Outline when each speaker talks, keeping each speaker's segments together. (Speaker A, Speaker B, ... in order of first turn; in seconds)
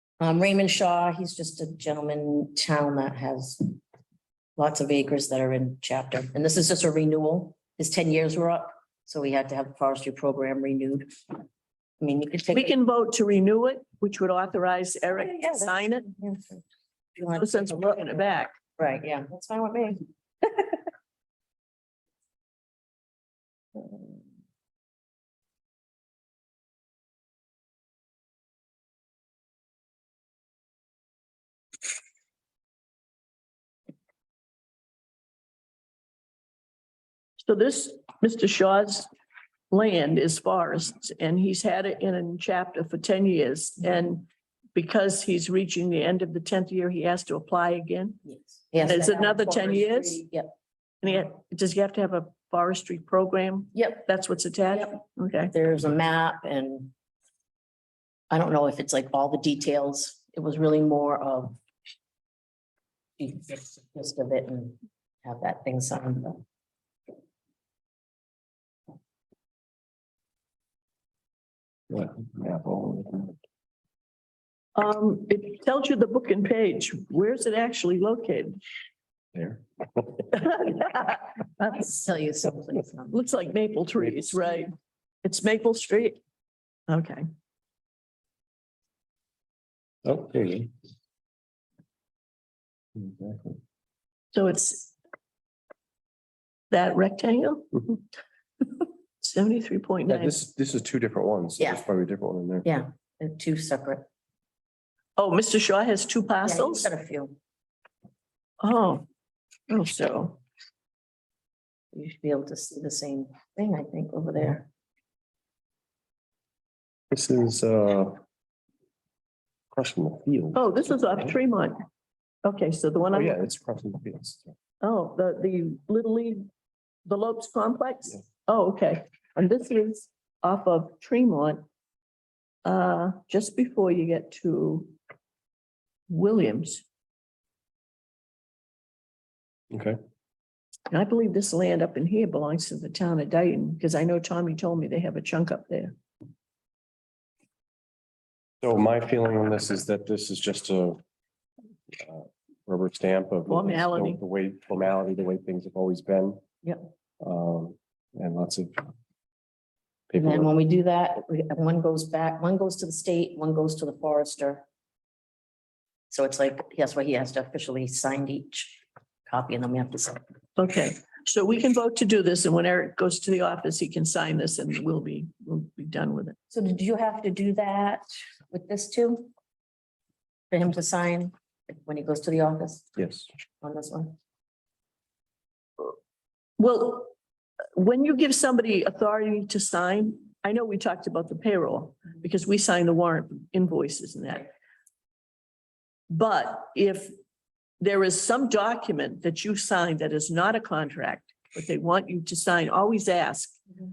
Speaker A: 0.2-3.8, 4.6-11.1, 12.0-12.8, 15.1-16.6, 17.2-20.8, 23.8-24.2, 48.2-50.5, 53.8-54.1, 54.7-56.9, 58.3-61.6, 63.2-66.4, 81.6-83.2, 101.6-101.8, 102.6-104.1, 106.4-107.4, 111.9-114.7, 160.2-164.7, 166.1-170.2, 176.5-179.3, 180.5-182.9, 183.6-184.2
Speaker B: 12.5-16.1, 17.3-18.6, 37.4-39.1, 39.7-48.2, 48.8-50.3, 51.0-55.5, 74.8-78.6, 80.3-81.7, 83.1-86.2, 86.9-87.3, 94.3-94.9, 96.7-98.0, 98.8-100.3, 105.2-106.9, 108.6-109.0, 109.7-110.4, 120.5-121.8, 122.5-123.4, 124.8-126.5, 127.1-131.7, 132.7-135.0, 136.1-136.8, 140.9-145.9, 153.5-154.2, 170.6-176.4, 186.6-187.1, 187.8-194.5, 196.1-197.1, 197.8-203.6
Speaker C: 71.9-73.4, 79.3-80.3, 90.0-90.7, 93.0-93.6, 100.1-102.7, 117.1-118.2, 119.7-121.4, 123.1-124.5, 139.7-140.0, 148.6-151.0, 152.0-156.4, 157.2-158.8, 160.1-160.5, 183.0-183.3